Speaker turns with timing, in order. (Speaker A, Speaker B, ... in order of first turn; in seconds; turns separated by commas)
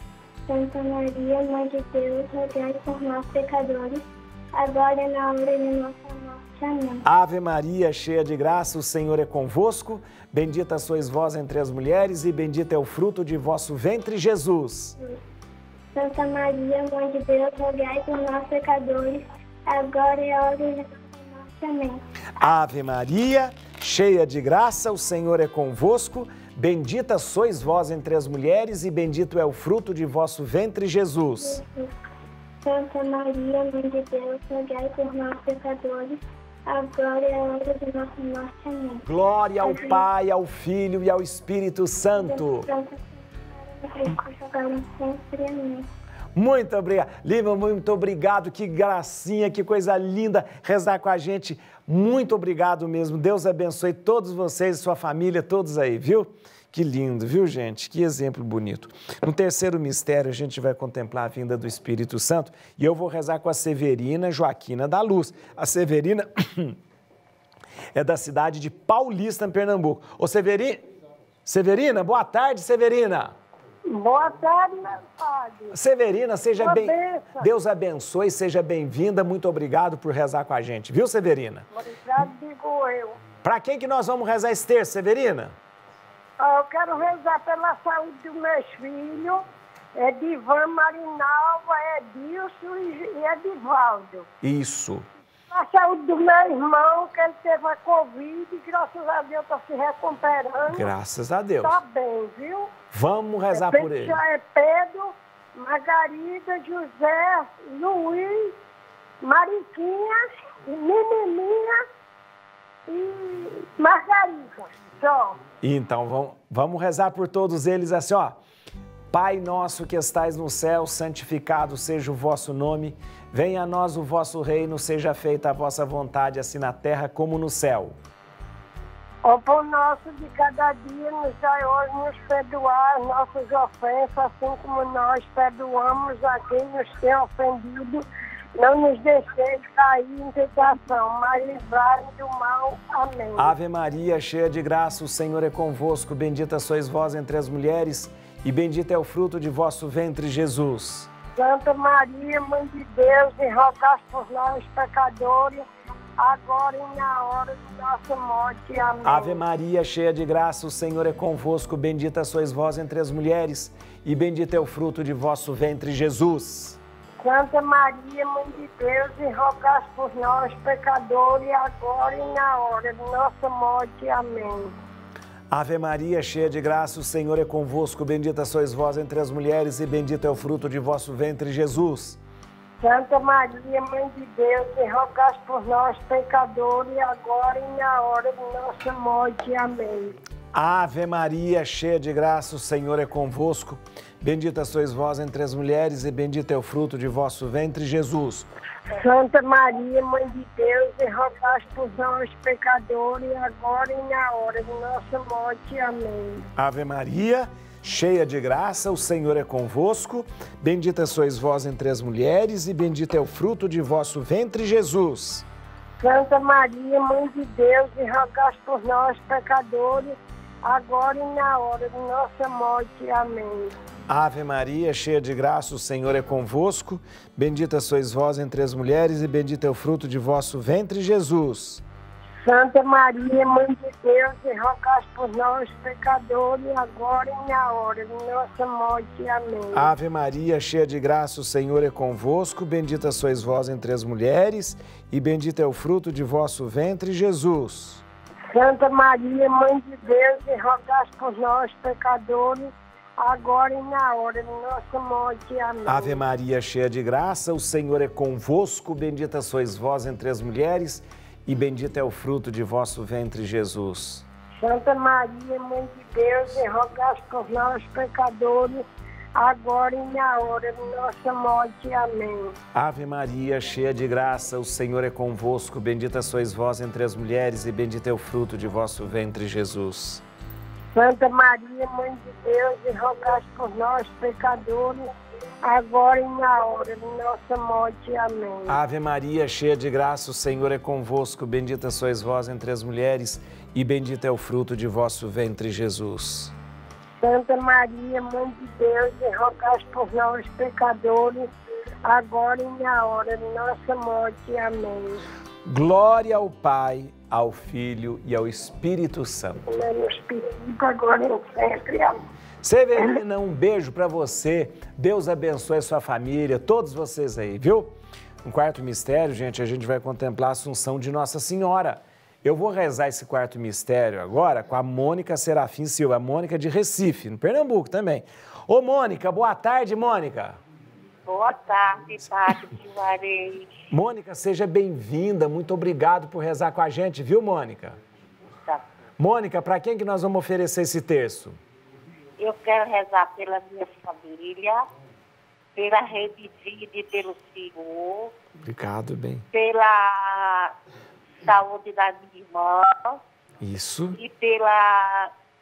Speaker A: 0.5-7.0, Speaker B: 7.0-14.9, Speaker A: 15.9-22.0, Speaker B: 22.4-31.6, Speaker A: 31.4-31.9, Speaker A: 32.6-39.0, Speaker B: 39.0-42.7, Speaker A: 39.6-40.1, Speaker A: 42.1-45.9, Speaker B: 46.3-66.8, Speaker B: 67.9-70.8, Speaker B: 71.5-73.3, Speaker C: 73.9-75.8, Speaker B: 75.7-81.7, Speaker C: 76.5-77.5, Speaker C: 81.7-83.2, Speaker B: 83.4-85.5, Speaker C: 86.4-89.4, Speaker C: 90.0-94.3, Speaker B: 94.4-95.1, Speaker C: 95.5-100.9, Speaker B: 100.7-101.8, Speaker C: 101.6-102.7, Speaker B: 102.9-104.2, Speaker C: 103.5-108.5, Speaker C: 109.2-111.8, Speaker C: 112.9-115.4, Speaker B: 115.6-118.4, Speaker B: 119.1-128.0, Speaker C: 129.2-138.0, Speaker C: 138.6-143.5, Speaker B: 143.3-151.1, Speaker C: 151.3-155.6, Speaker C: 156.2-159.4, Speaker B: 159.0-166.8, Speaker C: 167.2-174.7, Speaker B: 175.5-182.2, Speaker C: 182.8-190.2, Speaker B: 190.5-198.5, Speaker C: 198.9-206.4, Speaker B: 206.6-215.4, Speaker C: 216.0-223.7, Speaker B: 224.1-231.8, Speaker C: 232.4-239.9, Speaker B: 239.7-248.0, Speaker C: 248.5-256.2, Speaker B: 255.8-264.2, Speaker C: 264.6-268.8, Speaker C: 269.4-272.5, Speaker B: 272.7-280.2, Speaker C: 280.9-285.0, Speaker C: 285.6-288.8, Speaker B: 288.7-296.5, Speaker C: 297.2-301.5, Speaker C: 302.0-305.2, Speaker B: 305.6-309.6, Speaker C: 309.7-312.2, Speaker B: 312.6-330.6, Speaker D: 331.2-333.7, Speaker B: 333.9-338.0, Speaker B: 339.2-341.6, Speaker D: 342.4-344.8, Speaker D: 345.8-348.3, Speaker B: 348.6-349.4, Speaker D: 349.5-350.7, Speaker D: 351.4-353.2, Speaker B: 353.6-354.2, Speaker D: 354.1-355.3